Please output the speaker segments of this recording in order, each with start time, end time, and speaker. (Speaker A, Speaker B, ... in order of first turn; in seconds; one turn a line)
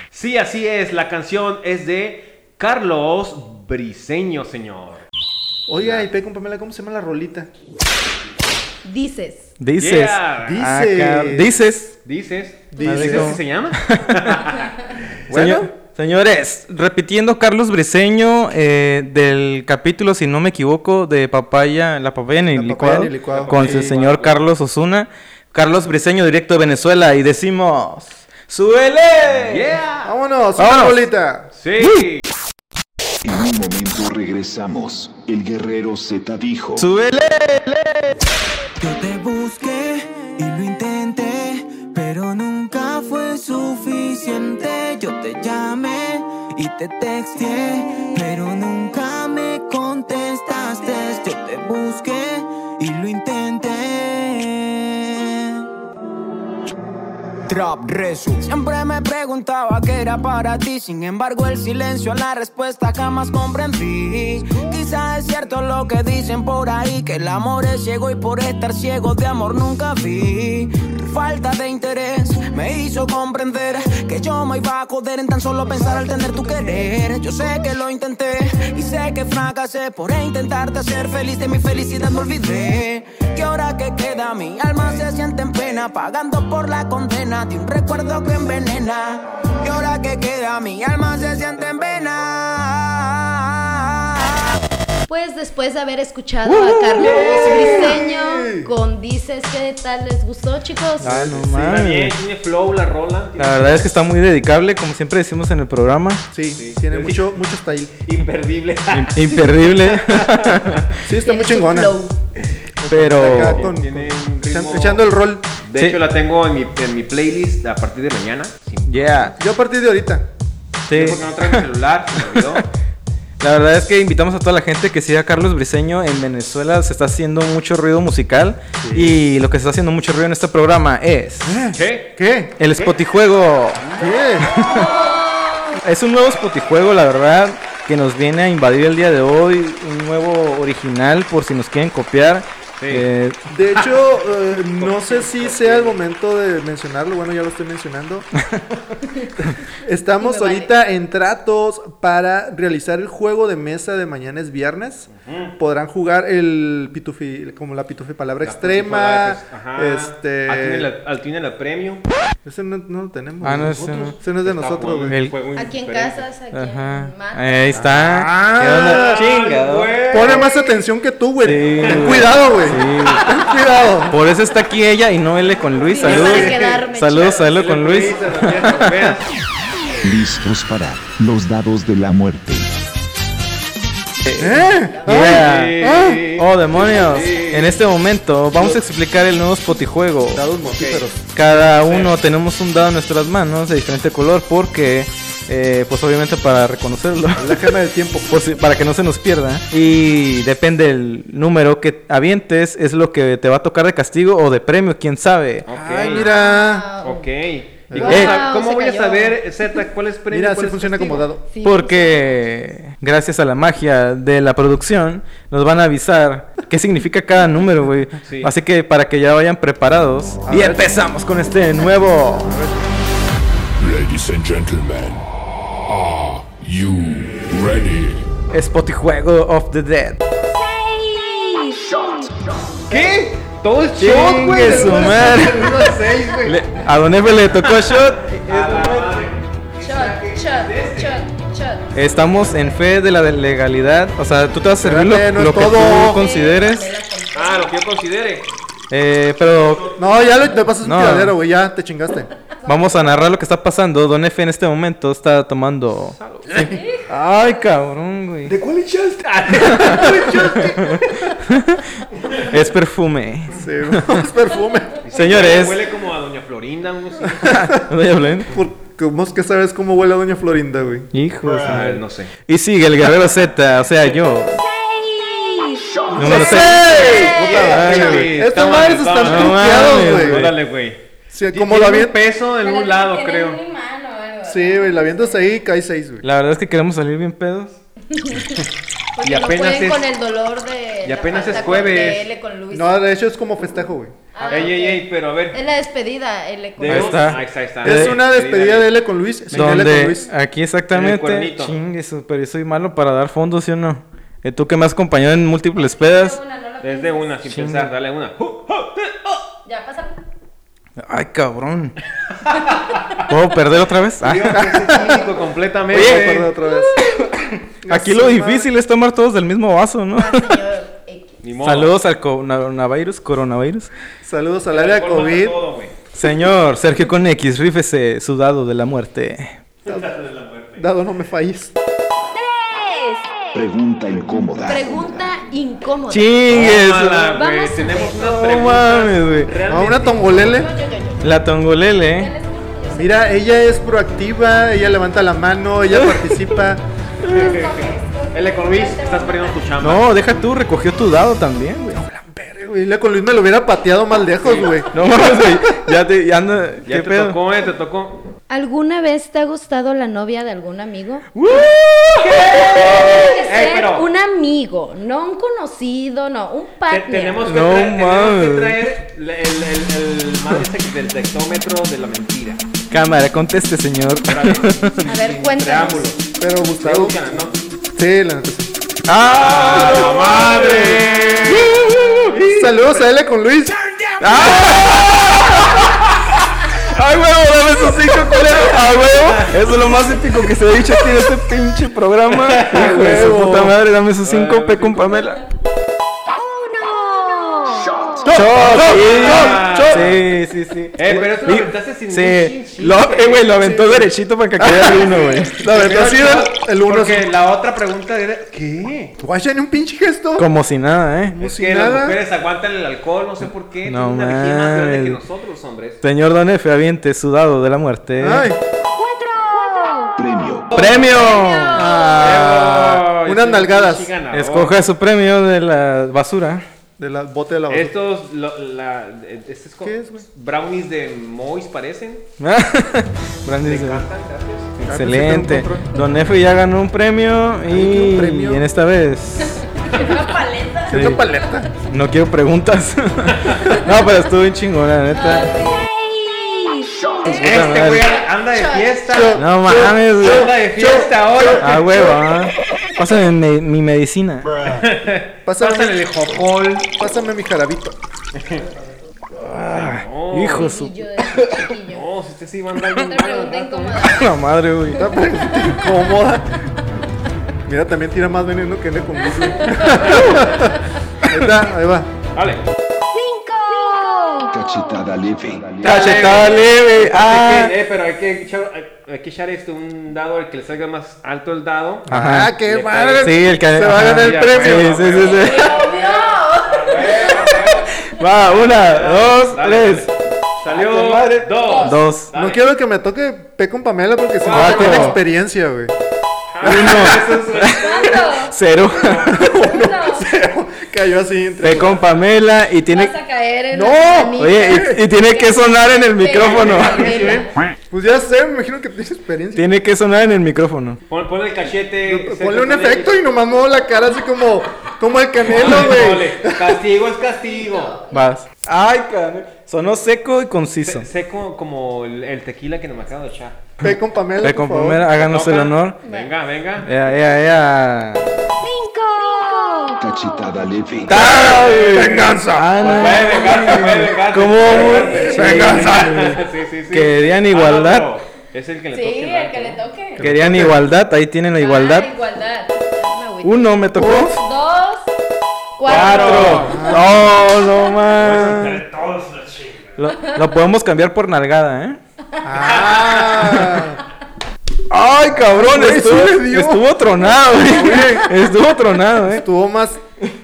Speaker A: 0.1-5.0
Speaker B: 5.7-7.5
Speaker A: 5.8-6.1
Speaker C: 8.8-9.5
Speaker D: 9.6-11.9
Speaker A: 9.8-10.7
Speaker B: 10.4-11.5
Speaker A: 12.0-14.9
Speaker B: 12.7-13.4
Speaker D: 12.8-14.4
Speaker B: 15.3-15.7
Speaker D: 15.3-29.7
Speaker B: 22.5-23.9
Speaker A: 23.3-24.4
Speaker A: 29.4-30.1
Speaker B: 30.0-31.5
Speaker D: 30.6-31.1
Speaker A: 31.5-32.2
Speaker D: 31.8-32.1
Speaker E: 33.2-36.9
Speaker D: 36.8-38.2
Speaker F: 38.8-55.7
Speaker F: 57.5-94.3
Speaker C: 95.1-101.2
Speaker D: 96.5-96.8
Speaker B: 96.9-98.7
Speaker A: 97.0-98.0
Speaker D: 101.0-102.2
Speaker B: 101.0-101.8
Speaker A: 101.5-103.9
Speaker D: 103.4-106.2
Speaker B: 106.3-108.0
Speaker A: 106.5-107.4
Speaker A: 108.0-110.8
Speaker D: 108.9-111.0
Speaker B: 111.0-112.0
Speaker C: 111.2-112.1
Speaker B: 112.8-115.5
Speaker D: 112.9-113.7
Speaker A: 113.1-119.3
Speaker D: 118.9-119.3
Speaker B: 119.4-120.3
Speaker D: 120.9-122.6
Speaker A: 120.9-122.6
Speaker D: 123.4-131.6
Speaker B: 128.8-129.2
Speaker B: 131.4-132.5
Speaker A: 131.7-132.1
Speaker D: 132.6-133.9
Speaker A: 133.8-134.1
Speaker B: 133.9-134.6
Speaker D: 134.5-134.9
Speaker C: 134.7-135.8
Speaker D: 135.8-143.4
Speaker A: 142.8-143.1
Speaker B: 143.5-148.3
Speaker A: 143.7-146.0
Speaker B: 149.4-160.9
Speaker C: 150.2-150.7
Speaker A: 155.1-155.6
Speaker A: 158.4-162.0
Speaker B: 162.4-165.2
Speaker D: 163.4-164.1
Speaker A: 163.6-166.2
Speaker D: 165.1-165.3
Speaker C: 165.5-167.8
Speaker D: 166.5-169.9
Speaker B: 167.7-169.2
Speaker A: 168.4-170.5
Speaker B: 170.1-174.2
Speaker C: 170.2-170.8
Speaker D: 171.4-173.3
Speaker A: 171.8-172.3
Speaker A: 173.1-173.4
Speaker D: 174.1-179.1
Speaker C: 175.9-177.5
Speaker A: 175.9-179.3
Speaker E: 180.0-182.7
Speaker D: 184.2-190.4
Speaker B: 184.4-186.2
Speaker C: 184.9-185.3
Speaker A: 185.1-187.8
Speaker B: 190.3-191.2
Speaker A: 190.6-191.1
Speaker D: 191.3-197.8
Speaker A: 191.6-192.1
Speaker B: 197.4-198.4
Speaker D: 198.3-206.2
Speaker A: 205.7-206.3
Speaker B: 205.7-206.9
Speaker C: 206.1-207.3
Speaker A: 207.0-211.2
Speaker B: 207.9-208.4
Speaker C: 208.0-209.4
Speaker D: 208.0-208.4
Speaker B: 210.3-211.4
Speaker C: 211.5-212.3
Speaker D: 211.6-222.5
Speaker A: 218.2-218.5
Speaker B: 220.4-221.0
Speaker B: 222.0-223.0
Speaker G: 223.8-228.4
Speaker D: 228.5-230.2
Speaker F: 231.0-232.1
Speaker A: 232.9-235.9
Speaker D: 234.0-235.9
Speaker B: 234.5-236.6
Speaker D: 236.4-239.3
Speaker A: 237.9-241.1
Speaker C: 239.8-242.8
Speaker D: 241.9-246.9
Speaker B: 244.8-246.2
Speaker C: 246.0-247.7
Speaker A: 247.3-248.5
Speaker D: 248.9-249.9
Speaker A: 249.6-250.3
Speaker B: 250.0-252.3
Speaker D: 250.8-251.4
Speaker C: 252.6-253.0
Speaker D: 252.7-258.6
Speaker A: 256.1-256.6
Speaker B: 256.5-256.8
Speaker C: 256.6-257.1
Speaker B: 258.4-261.2
Speaker A: 259.4-260.7
Speaker D: 259.6-260.9
Speaker D: 261.4-261.9
Speaker D: 262.4-264.3
Speaker B: 263.5-265.0
Speaker A: 265.0-267.6
Speaker D: 265.1-265.8
Speaker B: 267.4-267.8
Speaker D: 267.5-268.5
Speaker B: 268.4-271.1
Speaker D: 271.1-274.6
Speaker A: 271.6-272.3
Speaker F: 275.2-276.1
Speaker B: 276.1-280.5
Speaker D: 276.1-278.4
Speaker A: 277.1-283.6
Speaker D: 279.2-280.6
Speaker B: 281.3-282.2
Speaker C: 282.6-285.4
Speaker B: 284.5-286.2
Speaker D: 286.2-287.8
Speaker C: 288.1-288.6
Speaker C: 289.2-293.0
Speaker A: 289.2-290.1
Speaker A: 291.0-292.3
Speaker B: 292.7-294.2
Speaker C: 294.3-297.4
Speaker A: 294.4-295.6
Speaker A: 296.8-298.9
Speaker D: 296.9-298.2
Speaker B: 297.8-300.3
Speaker A: 299.5-300.0
Speaker D: 299.5-306.4
Speaker A: 300.9-301.8
Speaker C: 305.8-307.4
Speaker A: 306.8-309.4
Speaker D: 307.4-307.9
Speaker C: 309.6-310.1
Speaker D: 311.0-311.9
Speaker D: 313.3-314.8
Speaker A: 314.2-316.5
Speaker B: 314.6-315.2
Speaker D: 315.9-316.4
Speaker B: 315.9-317.0
Speaker D: 316.9-320.6
Speaker B: 317.8-318.7
Speaker C: 320.1-321.4
Speaker A: 321.4-321.9
Speaker D: 321.6-323.9
Speaker B: 324.2-325.6
Speaker A: 324.7-325.9
Speaker D: 326.1-329.6
Speaker A: 329.8-330.9
Speaker B: 330.8-331.7
Speaker C: 332.7-333.3
Speaker E: 333.5-335.3
Speaker C: 334.6-336.5
Speaker D: 336.1-337.4
Speaker A: 336.5-340.4
Speaker C: 337.3-338.2
Speaker D: 338.2-339.5
Speaker B: 339.6-340.7
Speaker C: 339.9-341.2
Speaker D: 341.2-342.3
Speaker C: 342.1-343.3
Speaker B: 342.9-346.8
Speaker D: 345.9-346.6
Speaker C: 347.2-349.6
Speaker A: 347.3-350.0
Speaker D: 349.8-352.2
Speaker B: 352.3-354.9
Speaker A: 354.4-354.8
Speaker D: 354.9-357.4
Speaker A: 356.9-358.3
Speaker C: 358.5-361.3
Speaker D: 361.3-363.3
Speaker A: 362.1-364.1
Speaker C: 363.0-367.5
Speaker A: 366.9-372.6
Speaker D: 367.4-368.8
Speaker D: 372.9-375.1
Speaker A: 374.3-376.2
Speaker C: 375.0-376.1
Speaker B: 376.4-378.7
Speaker A: 376.8-377.6
Speaker D: 379.1-382.8
Speaker A: 379.3-381.8
Speaker B: 379.8-381.7
Speaker B: 382.4-383.8
Speaker A: 383.8-385.3
Speaker D: 384.2-386.0
Speaker D: 386.8-395.4
Speaker A: 389.0-390.1
Speaker A: 392.3-393.6
Speaker B: 392.7-393.7
Speaker A: 394.2-395.3
Speaker F: 396.5-398.2
Speaker B: 398.2-400.2
Speaker D: 398.3-405.6
Speaker A: 398.7-400.2
Speaker A: 401.0-403.8
Speaker B: 403.6-404.1
Speaker B: 404.6-407.3
Speaker A: 405.6-409.1
Speaker B: 409.2-410.5
Speaker D: 410.4-411.4
Speaker B: 411.3-412.2
Speaker A: 411.4-416.0
Speaker D: 413.8-415.2
Speaker D: 416.0-418.5
Speaker B: 418.2-418.6
Speaker F: 419.0-420.1
Speaker E: 420.1-420.7
Speaker A: 420.7-421.3
Speaker D: 420.7-423.0
Speaker F: 421.5-421.9
Speaker B: 421.7-424.1
Speaker A: 422.1-424.8
Speaker D: 424.3-426.6
Speaker B: 427.0-428.0
Speaker A: 427.7-432.2
Speaker B: 429.8-430.2
Speaker D: 432.4-434.1
Speaker A: 433.6-434.7
Speaker D: 434.8-439.6
Speaker B: 434.8-435.9
Speaker B: 437.6-438.6
Speaker C: 439.7-441.2
Speaker B: 440.9-441.7
Speaker D: 440.9-441.2
Speaker D: 441.9-445.6
Speaker C: 445.2-445.9
Speaker D: 447.2-448.1
Speaker A: 447.3-449.5
Speaker C: 448.5-448.9
Speaker B: 449.1-451.8
Speaker D: 449.4-450.5
Speaker A: 450.2-452.1
Speaker D: 451.6-454.5
Speaker A: 454.6-456.9
Speaker B: 455.4-457.9
Speaker A: 458.3-458.6
Speaker D: 459.3-461.6
Speaker A: 459.7-460.7
Speaker C: 460.4-462.1
Speaker A: 461.9-464.1
Speaker C: 463.0-464.4
Speaker D: 464.0-465.1
Speaker C: 464.9-466.1
Speaker B: 465.0-466.5
Speaker B: 467.6-472.1
Speaker C: 469.3-469.8
Speaker A: 469.9-470.3
Speaker A: 472.3-472.6
Speaker F: 473.1-474.5
Speaker E: 474.5-476.3
Speaker D: 475.8-477.8
Speaker A: 475.8-487.9
Speaker B: 482.1-485.0
Speaker D: 482.1-482.5
Speaker D: 483.2-485.7
Speaker C: 485.2-487.6
Speaker D: 487.6-490.1
Speaker A: 488.6-492.6
Speaker D: 490.7-492.3
Speaker C: 491.6-492.0
Speaker B: 492.3-495.9
Speaker A: 494.4-495.2
Speaker D: 494.5-495.2
Speaker A: 496.5-498.2
Speaker D: 496.6-500.0
Speaker B: 496.6-497.4
Speaker C: 497.6-498.5
Speaker C: 499.2-500.2
Speaker B: 500.0-502.0
Speaker D: 501.6-503.1
Speaker C: 502.9-507.6
Speaker B: 503.7-504.9
Speaker D: 504.3-507.1
Speaker A: 506.4-507.4
Speaker B: 506.9-509.7
Speaker D: 509.5-511.0
Speaker A: 511.1-513.2
Speaker B: 512.0-516.8
Speaker A: 515.4-518.0
Speaker C: 517.5-518.3
Speaker D: 518.1-521.1
Speaker A: 520.8-523.6
Speaker B: 523.8-525.0
Speaker D: 524.4-526.0
Speaker A: 525.1-526.9
Speaker C: 526.0-526.3
Speaker D: 526.8-528.6
Speaker F: 528.6-530.0
Speaker E: 530.0-531.2
Speaker D: 531.1-538.1
Speaker A: 531.1-532.2
Speaker B: 531.2-532.8
Speaker A: 532.8-539.8
Speaker B: 534.9-536.2
Speaker C: 538.9-540.2
Speaker B: 540.2-540.8
Speaker D: 540.2-542.1
Speaker C: 541.6-545.1
Speaker D: 543.4-544.4
Speaker B: 544.0-544.3
Speaker C: 545.8-546.7
Speaker D: 545.8-548.9
Speaker A: 545.9-547.0
Speaker B: 546.4-547.2
Speaker A: 548.2-549.9
Speaker D: 550.0-552.0
Speaker B: 552.4-554.0
Speaker A: 552.7-553.6
Speaker D: 554.9-559.4
Speaker B: 555.3-558.3
Speaker B: 559.3-560.0